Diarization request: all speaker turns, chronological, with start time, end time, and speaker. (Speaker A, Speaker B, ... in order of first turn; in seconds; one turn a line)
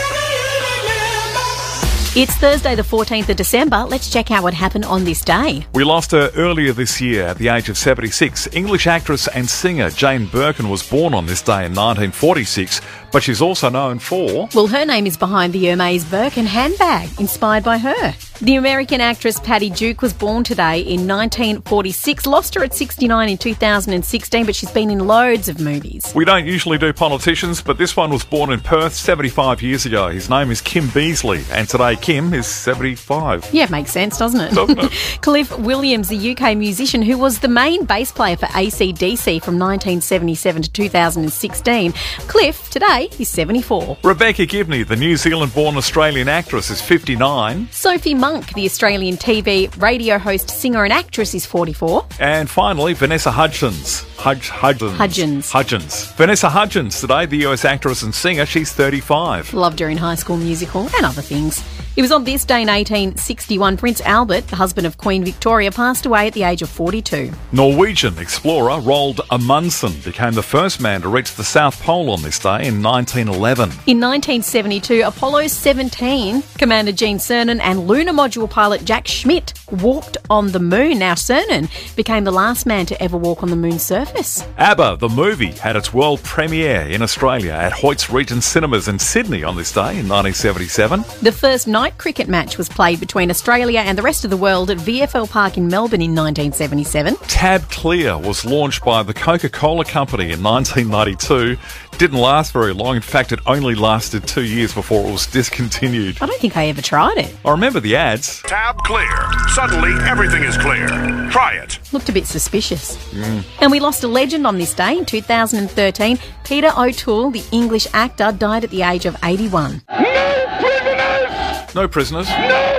Speaker A: 2.1-5.6
Speaker B: 5.7-14.5
Speaker A: 14.5-26.1
Speaker B: 26.1-33.5
Speaker A: 33.5-44.0
Speaker B: 34.5-34.9
Speaker B: 44.0-47.7
Speaker A: 47.7-52.1
Speaker B: 52.2-59.5
Speaker A: 54.9-55.5
Speaker A: 59.5-67.4
Speaker B: 67.5-73.8
Speaker A: 73.8-84.5
Speaker B: 84.6-91.1
Speaker A: 91.2-97.2
Speaker B: 97.3-106.2
Speaker A: 106.2-107.3
Speaker B: 107.4-108.4
Speaker C: 108.4-111.8
Speaker A: 111.9-113.0
Speaker B: 113.1-113.5
Speaker A: 113.6-119.8
Speaker B: 121.7-122.4